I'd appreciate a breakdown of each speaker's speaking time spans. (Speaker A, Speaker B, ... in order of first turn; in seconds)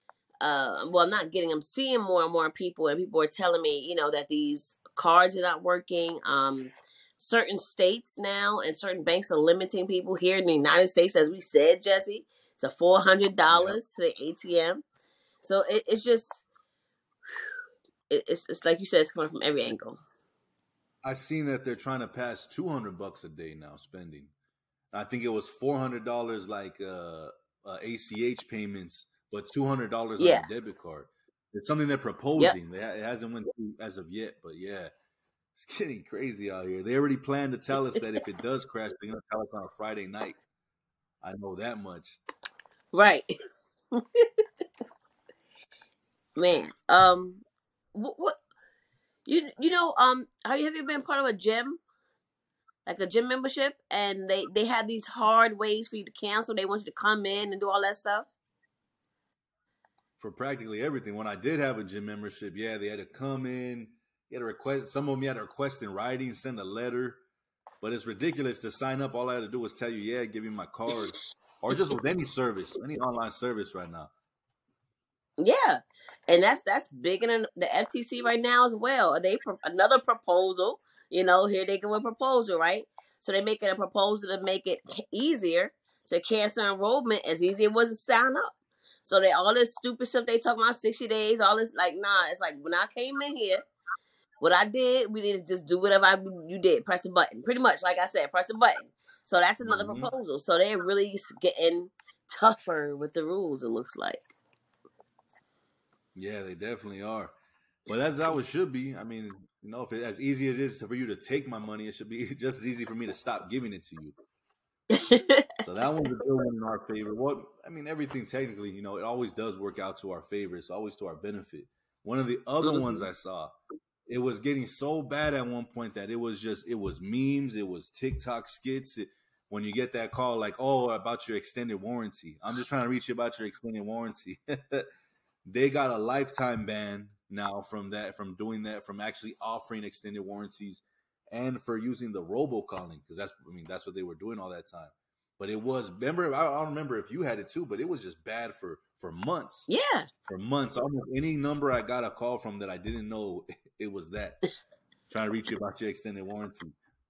Speaker A: 0.4-14.8, 15.4-16.4, 18.1-20.0, 30.2-30.4, 42.9-43.3, 43.9-44.4, 46.4-47.4, 47.9-48.4, 49.2-51.8, 52.9-58.3, 75.4-93.6, 94.4-104.2, 114.9-115.5, 122.6-123.0, 149.7-150.1
Speaker B: 13.5-13.8, 21.0-24.3, 24.9-34.9, 35.5-40.4, 41.2-42.2, 60.2-67.2, 67.8-74.1, 99.6-100.1, 106.1-107.3, 107.9-114.2, 115.6-123.5, 124.1-134.9, 135.4-149.7, 150.2-154.4, 155.1-156.7